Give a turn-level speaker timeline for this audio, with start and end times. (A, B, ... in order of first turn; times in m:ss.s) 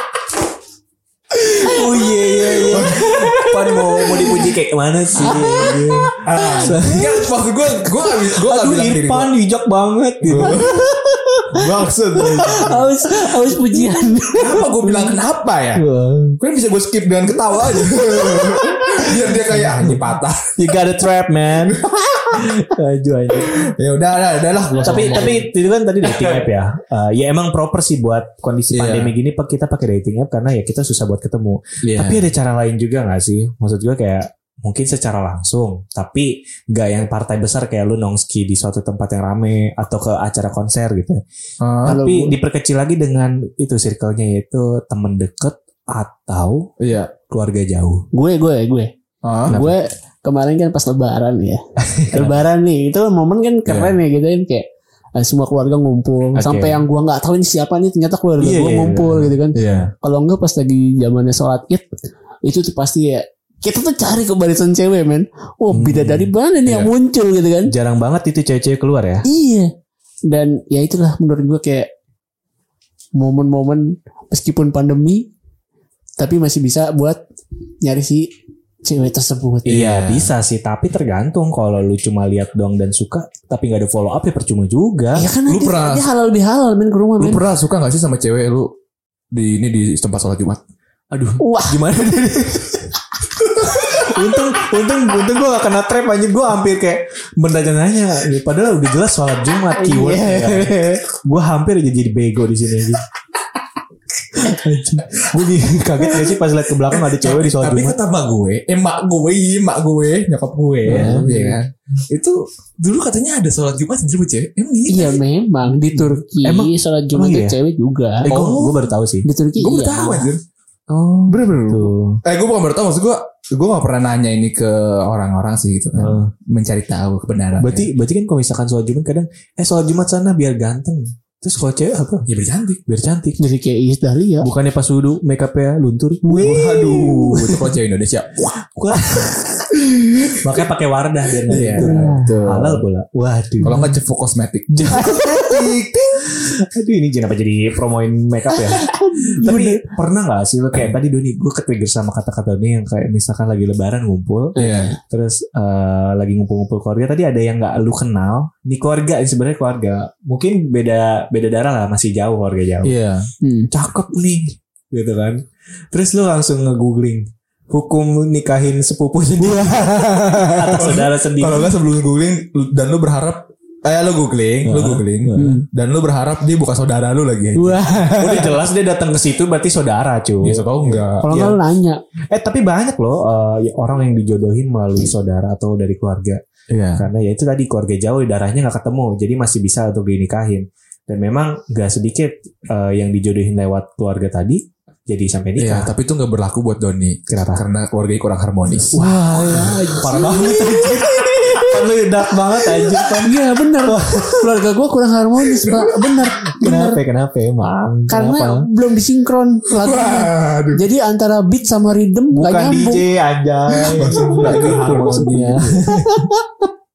0:01.3-0:07.3 A
0:01.6-0:04.6 B
0:02.7-0:03.3 C
0:05.2-0:06.9 B
0:06.2-0:09.3 C
0:08.1-0:11.5 A
0:10.2-0:10.8 C
0:10.4-0:10.9 B
0:11.5-0:12.8 C
0:12.2-0:14.7 B
0:12.4-0:12.8 A
0:14.4-0:15.8 C
0:15.8-0:16.4 A
0:16.4-0:20.5 C
0:18.3-0:23.7 A
0:21.7-0:22.4 C
0:23.4-0:25.5 C
0:24.8-0:25.4 B
0:24.8-0:41.2 A
0:28.7-0:29.2 C
0:31.8-0:32.3 C
0:41.6-0:42.0 C
0:41.8-0:42.4 B
0:41.9-0:46.7 A
0:46.8-0:47.1 C
0:47.3-0:48.1 A
0:48.1-0:48.9 B
0:49.2-0:49.6 C
0:49.5-1:01.9 B
0:49.5-0:49.8 A
0:51.8-0:52.4 A
0:53.7-0:54.0 C
0:56.4-0:56.8 A
0:58.4-0:59.8 A
0:59.6-0:59.9 C
1:02.4-1:07.7 B
1:05.7-1:06.3 A
1:06.7-1:06.9 C
1:07.7-1:09.3 A
1:09.2-1:09.7 B
1:10.3-1:11.9 B
1:13.2-1:15.3 B
1:16.2-1:17.2 B
1:17.8-1:18.3 B
1:18.8-1:19.9 B
1:19.7-1:25.3 A
1:19.7-1:20.3 C
1:25.2-1:27.4 B
1:25.5-1:26.0 C
1:27.2-1:28.7 C
1:29.3-1:30.6 C
1:31.1-1:43.1 A
1:31.4-1:31.8 B
1:33.6-1:34.4 B
1:39.7-1:41.0 B
1:44.4-1:48.0 A
1:46.0-1:46.3 C
1:46.9-1:55.2 C
1:50.9-1:51.4 A
1:50.9-1:51.6 B
1:54.9-1:58.3 B
1:55.8-1:57.6 A
1:58.2-1:59.3 A
1:58.3-1:58.8 C
1:59.2-2:00.3 B
1:59.6-2:00.4 C
2:00.9-2:02.2 A
2:01.3-2:07.9 C
2:06.0-2:06.3 A
2:07.6-2:12.3 A
2:12.3-2:12.8 C
2:12.9-2:13.4 A
2:13.4-2:14.5 B
2:14.4-2:17.8 A
2:16.3-2:16.7 B
2:16.3-2:19.3 C
2:18.8-2:23.9 A
2:19.9-2:20.4 C
2:21.5-2:22.8 C
2:21.8-2:22.4 B
2:23.6-2:26.3 C
2:24.7-2:43.0 A
2:24.9-2:25.3 B
2:28.5-2:29.9 B
2:34.6-2:35.0 C
2:34.6-2:35.0 B
2:42.8-2:43.3 C
2:43.4-2:43.7 B
2:43.7-2:51.7 A
2:49.5-2:58.5 C
2:54.6-2:55.6 A
2:55.4-2:55.6 B
2:57.6-2:58.5 B
2:58.2-3:01.6 A
3:00.4-3:01.3 C
3:01.2-3:02.0 B
3:02.3-3:06.4 A
3:06.7-3:07.1 C
3:07.0-3:15.9 A
3:15.6-3:21.8 C
3:17.3-3:17.6 A
3:18.9-3:24.7 A
3:19.0-3:21.7 B
3:23.2-3:27.0 B
3:26.6-3:28.7 A
3:28.1-3:33.1 B
3:29.8-3:30.8 C
3:32.3-3:36.3 A
3:33.7-3:36.7 B
3:33.9-3:36.0 C